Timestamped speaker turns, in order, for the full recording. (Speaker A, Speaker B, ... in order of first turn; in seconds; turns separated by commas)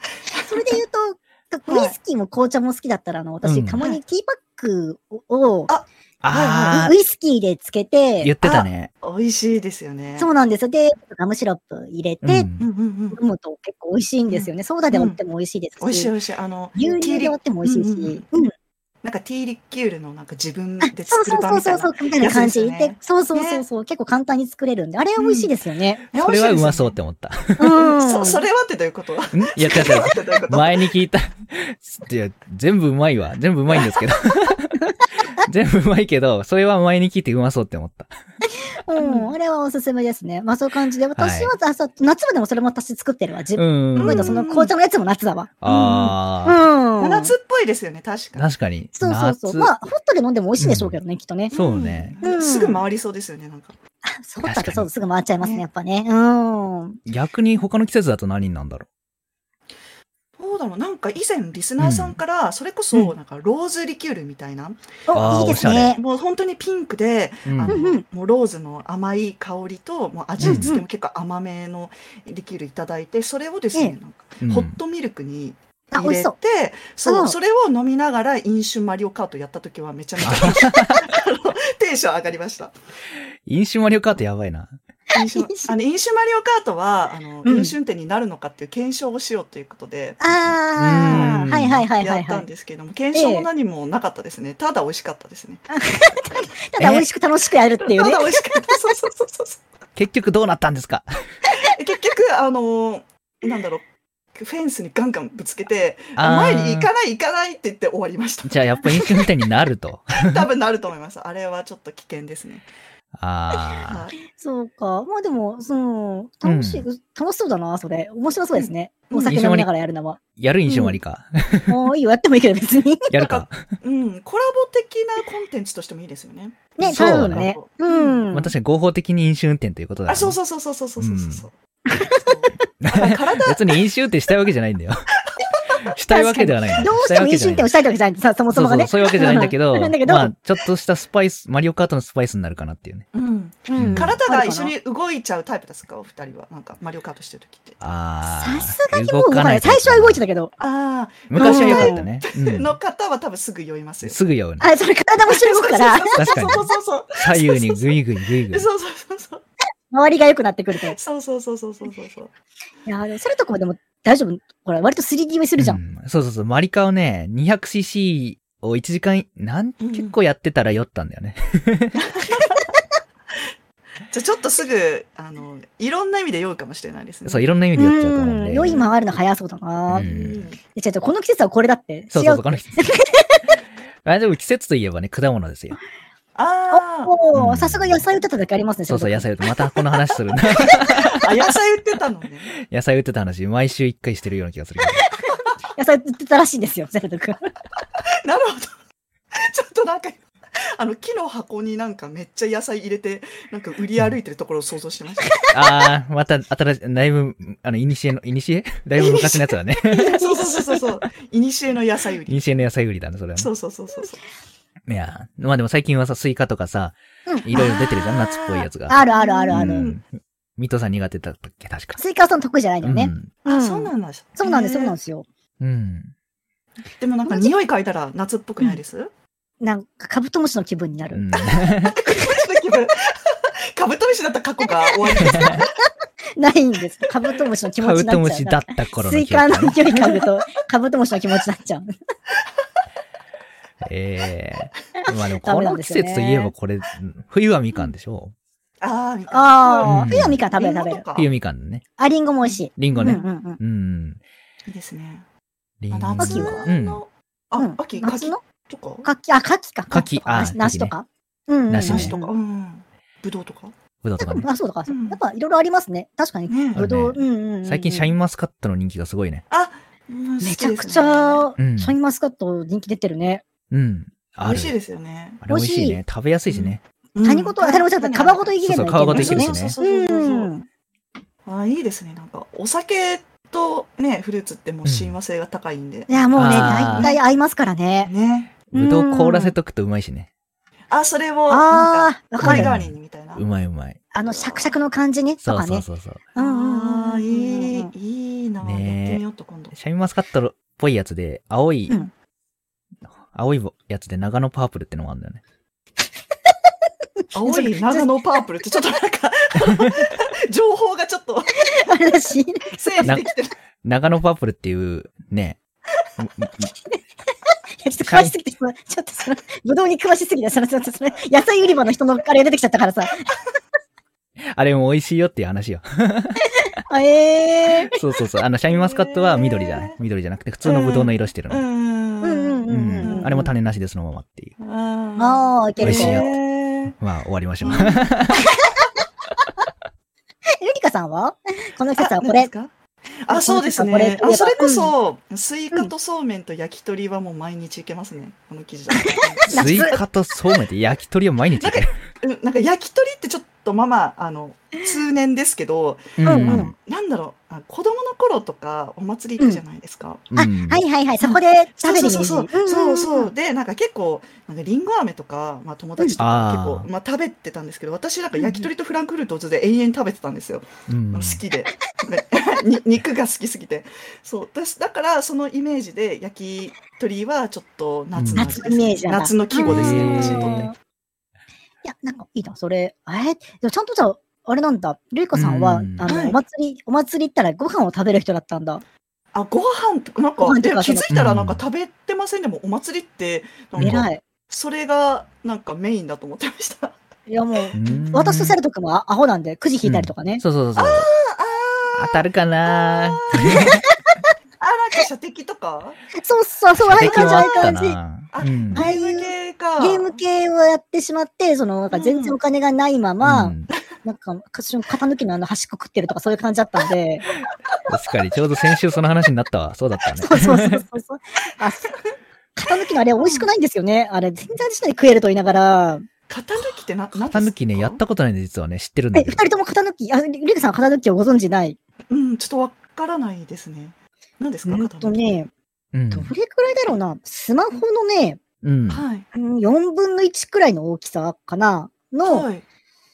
Speaker A: 0.3-0.8, Speaker B: 0.3-5.7, Speaker A: 1.7-1.9, Speaker C: 3.4-3.8, Speaker A: 5.7-6.8, Speaker C: 6.2-6.9, Speaker B: 6.6-8.3, Speaker C: 8.2-8.9, Speaker A: 8.4-10.3, Speaker B: 10.2-12.5, Speaker C: 12.2-12.7, Speaker A: 12.6-13.2, Speaker B: 13.1-16.1, Speaker A: 14.3-15.2, Speaker A: 15.8-18.2, Speaker B: 16.8-18.5, Speaker A: 19.0-23.6, Speaker B: 20.8-26.0, Speaker A: 25.2-25.5, Speaker A: 26.1-26.9, Speaker C: 26.1-27.7, Speaker B: 27.6-28.4, Speaker A: 27.7-30.9, Speaker C: 29.3-34.8, Speaker C: 35.4-38.1, Speaker B: 38.4-45.5, Speaker A: 39.0-39.3, Speaker C: 41.2-41.5, Speaker C: 43.5-44.4, Speaker A: 44.0-44.7, Speaker C: 45.6-46.6, Speaker A: 45.6-46.1, Speaker B: 46.4-47.3, Speaker A: 47.0-48.5, Speaker C: 48.4-49.7, Speaker B: 49.0-51.5, Speaker C: 50.6-51.0, Speaker A: 51.5-53.8, Speaker C: 51.5-52.1, Speaker B: 52.2-52.8, Speaker B: 54.0-57.0, Speaker C: 54.4-54.9, Speaker C: 57.0-58.9, Speaker A: 60.4-82.7, Speaker C: 61.8-62.2, Speaker B: 65.1-66.0, Speaker C: 65.1-66.0, Speaker C: 67.5-67.8, Speaker B: 67.7-68.0, Speaker C: 70.4-70.7, Speaker B: 70.4-70.8, Speaker C: 74.4-74.8, Speaker B: 75.9-76.3, Speaker B: 77.0-77.4, Speaker C: 80.2-81.1, Speaker C: 83.5-84.8, Speaker A: 85.1-90.2, Speaker B: 85.2-85.7, Speaker B: 87.4-87.7, Speaker B: 90.2-92.4, Speaker C: 90.8-91.9, Speaker A: 91.0-95.7, Speaker B: 93.1-93.5, Speaker B: 95.7-98.8, Speaker C: 96.8-97.0, Speaker A: 97.8-99.6, Speaker C: 100.0-101.0, Speaker A: 101.6-109.3, Speaker C: 106.2-106.9, Speaker C: 108.5-110.4, Speaker A: 110.2-112.7, Speaker C: 113.1-114.0, Speaker A: 113.7-114.1, Speaker B: 114.3-121.0, Speaker C: 116.4-116.9, Speaker A: 118.5-119.4, Speaker C: 119.2-119.7, Speaker C: 120.4-121.8, Speaker B: 121.7-123.1, Speaker C: 123.1-123.6, Speaker A: 123.2-128.2, Speaker B: 126.8-128.5, Speaker C: 126.8-127.5, Speaker C: 128.3-130.4, Speaker A: 130.1-131.5, Speaker C: 131.0-131.4, Speaker B: 131.9-132.3, Speaker A: 132.1-133.7, Speaker C: 132.8-135.1, Speaker C: 135.8-137.7, Speaker B: 136.1-140.3, Speaker C: 138.5-143.1, Speaker A: 139.2-139.5, Speaker A: 143.1-147.8, Speaker B: 143.7-144.7, Speaker C: 143.8-144.2, Speaker C: 147.8-150.2, Speaker B: 148.2-150.5, Speaker A: 150.6-154.2, Speaker C: 151.3-152.7, Speaker B: 151.4-152.0, Speaker C: 154.0-154.7, Speaker B: 154.6-156.6, Speaker A: 155.2-157.9, Speaker C: 156.2-158.7, Speaker A: 158.5-159.4, Speaker B: 159.9-161.0, Speaker A: 160.9-162.3, Speaker B: 162.9-165.8, Speaker C: 165.6-172.0, Speaker A: 169.8-170.1, Speaker A: 171.9-172.6, Speaker A: 174.1-177.4, Speaker C: 177.2-178.9, Speaker B: 177.8-180.1, Speaker C: 179.9-180.4, Speaker A: 180.0-180.6, Speaker B: 180.7-183.5, Speaker C: 182.1-182.8, Speaker C: 184.0-185.8, Speaker A: 186.3-187.1, Speaker B: 186.7-189.3, Speaker C: 187.3-188.0, Speaker C: 188.9-191.3, Speaker A: 190.8-192.5, Speaker C: 192.6-195.1, Speaker B: 195.0-197.5, Speaker A: 198.2-198.7, Speaker A: 199.3-205.5, Speaker C: 205.5-210.3, Speaker A: 209.0-212.6, Speaker B: 210.0-210.6, Speaker C: 212.3-213.5, Speaker A: 213.4-214.2, Speaker C: 214.9-220.1, Speaker B: 217.3-217.8, Speaker A: 217.5-220.0, Speaker B: 218.9-219.9, Speaker C: 220.6-222.0, Speaker B: 221.9-225.2, Speaker C: 222.8-223.3, Speaker A: 223.4-224.9, Speaker C: 225.6-226.1, Speaker A: 227.0-229.1, Speaker B: 229.6-231.2, Speaker C: 231.1-232.0, Speaker A: 231.8-235.7, Speaker B: 234.8-235.5, Speaker C: 235.2-235.6, Speaker B: 236.4-241.9, Speaker C: 237.8-239.8, Speaker C: 243.8-248.3, Speaker B: 245.0-246.5, Speaker A: 248.8-251.3, Speaker B: 249.3-251.0, Speaker C: 249.9-250.4, Speaker C: 251.1-251.8, Speaker B: 252.0-253.6, Speaker A: 252.5-253.2, Speaker C: 252.8-254.2, Speaker A: 254.7-255.2, Speaker C: 255.8-257.0, Speaker A: 255.9-259.1, Speaker B: 256.2-256.7, Speaker B: 257.6-258.4, Speaker B: 259.0-262.3, Speaker C: 259.9-260.9, Speaker C: 261.7-262.1, Speaker A: 261.8-263.7, Speaker C: 264.0-264.4, Speaker B: 264.2-268.1, Speaker A: 264.9-265.2, Speaker A: 266.5-266.8, Speaker C: 266.7-269.4, Speaker A: 269.5-271.4, Speaker B: 270.4-273.4, Speaker C: 271.6-271.9, Speaker C: 273.7-274.7, Speaker A: 274.4-275.4, Speaker C: 275.4-276.8, Speaker B: 275.5-276.0, Speaker A: 276.5-280.5, Speaker B: 277.2-280.6, Speaker C: 278.6-279.8, Speaker A: 281.4-287.2, Speaker C: 284.8-285.1, Speaker B: 286.1-288.1, Speaker C: 286.4-287.1, Speaker A: 288.0-288.6, Speaker B: 288.7-289.6, Speaker C: 288.7-290.3, Speaker A: 290.9-293.4, Speaker B: 291.5-292.7, Speaker C: 292.4-294.1, Speaker B: 294.1-297.9, Speaker C: 295.4-296.2, Speaker A: 296.3-299.7, Speaker C: 298.6-299.2, Speaker C: 299.7-301.9, Speaker C: 303.2-305.4, Speaker B: 307.2-308.1, Speaker A: 307.3-311.6, Speaker B: 311.6-313.2, Speaker A: 312.7-313.5, Speaker C: 313.0-313.3, Speaker C: 313.8-315.6, Speaker C: 316.2-316.7, Speaker B: 317.8-323.2, Speaker C: 318.1-318.3, Speaker C: 324.5-326.4, Speaker B: 326.5-327.9, Speaker C: 327.9-331.6, Speaker A: 328.7-329.9, Speaker A: 330.6-333.4, Speaker B: 332.2-333.5, Speaker C: 332.7-334.5, Speaker A: 334.6-336.9, Speaker B: 335.2-336.3, Speaker C: 335.8-336.4, Speaker C: 337.0-338.4, Speaker A: 337.6-338.2, Speaker B: 338.3-338.7, Speaker B: 340.6-342.5, Speaker A: 341.9-342.7, Speaker A: 343.2-349.8, Speaker B: 343.3-344.9, Speaker B: 349.0-350.0, Speaker C: 349.5-351.9, Speaker A: 351.6-360.3, Speaker C: 356.2-356.7, Speaker B: 356.2-356.7, Speaker C: 360.3-360.8, Speaker B: 360.3-363.3, Speaker A: 361.2-380.7, Speaker C: 366.2-366.9, Speaker C: 370.9-371.4, Speaker C: 378.1-378.5, Speaker B: 378.4-380.7, Speaker C: 379.6-380.7, Speaker B: 381.8-388.8, Speaker C: 385.3-386.1, Speaker A: 386.1-386.4, Speaker A: 389.3-397.0, Speaker B: 390.4-391.1, Speaker C: 391.1-391.6, Speaker C: 393.8-394.1, Speaker B: 393.8-394.2, Speaker B: 397.3-400.4, Speaker A: 397.6-398.1, Speaker C: 397.7-398.6, Speaker C: 399.8-401.1, Speaker A: 400.8-403.7, Speaker C: 401.9-403.8, Speaker B: 403.4-404.3, Speaker A: 404.6-406.0, Speaker B: 406.1-408.0, Speaker C: 406.8-408.9, Speaker A: 407.0-407.7, Speaker A: 408.3-410.2, Speaker B: 408.7-417.2, Speaker A: 411.9-412.4, Speaker C: 413.2-413.7, Speaker C: 417.9-420.8, Speaker B: 420.2-421.9, Speaker B: 422.6-426.1, Speaker A: 423.2-423.5, Speaker A: 426.3-428.0, Speaker C: 427.3-429.4, Speaker B: 429.1-431.8, Speaker A: 432.1-435.2, Speaker B: 434.7-435.5, Speaker C: 435.9-436.3, Speaker B: 436.1-438.4, Speaker C: 438.6-439.0, Speaker A: 438.9-439.2, Speaker B: 439.3-442.5, Speaker A: 442.2-442.6